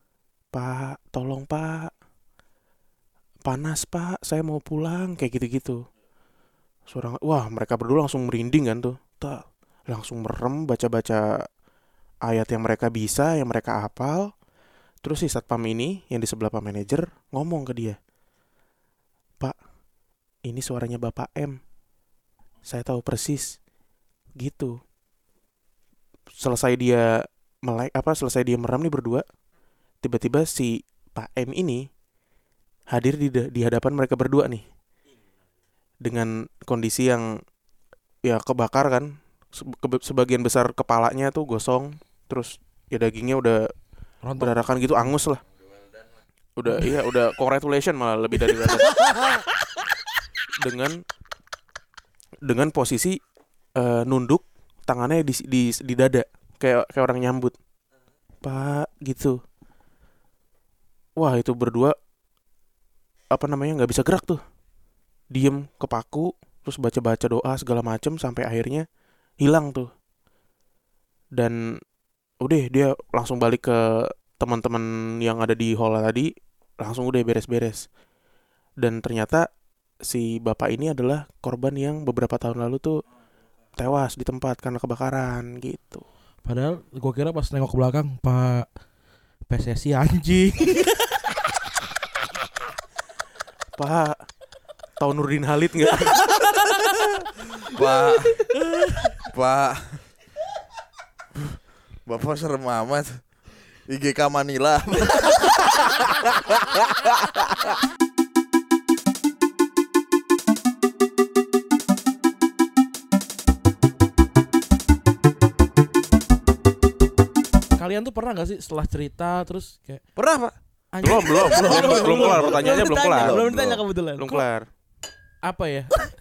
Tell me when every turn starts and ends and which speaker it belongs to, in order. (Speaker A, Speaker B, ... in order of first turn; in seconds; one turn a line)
Speaker A: 0.5-1.9
Speaker A: 3.5-5.8
Speaker A: 6.9-11.4
Speaker A: 12.2-14.3
Speaker A: 15.0-18.0
Speaker A: 20.4-21.6
Speaker A: 22.6-23.6
Speaker A: 24.4-24.8
Speaker A: 26.4-29.2
Speaker A: 30.0-31.9
Speaker A: 32.9-34.6
Speaker A: 36.0-37.3
Speaker A: 38.2-43.6
Speaker B: 44.2-44.6
Speaker A: 44.4-45.4
Speaker A: 46.6-49.1
Speaker A: 50.6-51.0
Speaker A: 52.4-53.2
Speaker A: 53.8-57.5
Speaker A: 58.4-59.4
Speaker A: 61.2-61.9
Speaker A: 63.3-64.4
Speaker A: 65.3-68.8
Speaker A: 69.4-69.9
Speaker A: 71.3-71.8
Speaker A: 72.4-77.8
Speaker A: 78.8-79.5
Speaker A: 80.0-83.0
Speaker A: 83.8-86.0
Speaker B: 86.4-88.7
Speaker B: 89.5-91.2
Speaker A: 93.8-94.2
Speaker A: 95.0-96.3
Speaker C: 97.6-98.5
Speaker B: 98.6-99.1
Speaker C: 99.2-100.0
Speaker C: 101.3-103.2
Speaker C: 103.9-107.7
Speaker B: 117.8-120.0
Speaker C: 120.2-120.5
Speaker B: 120.9-122.8
Speaker A: 121.0-123.3
Speaker D: 121.5-124.4
Speaker C: 123.2-123.8
Speaker A: 124.2-124.7
Speaker B: 125.4-125.9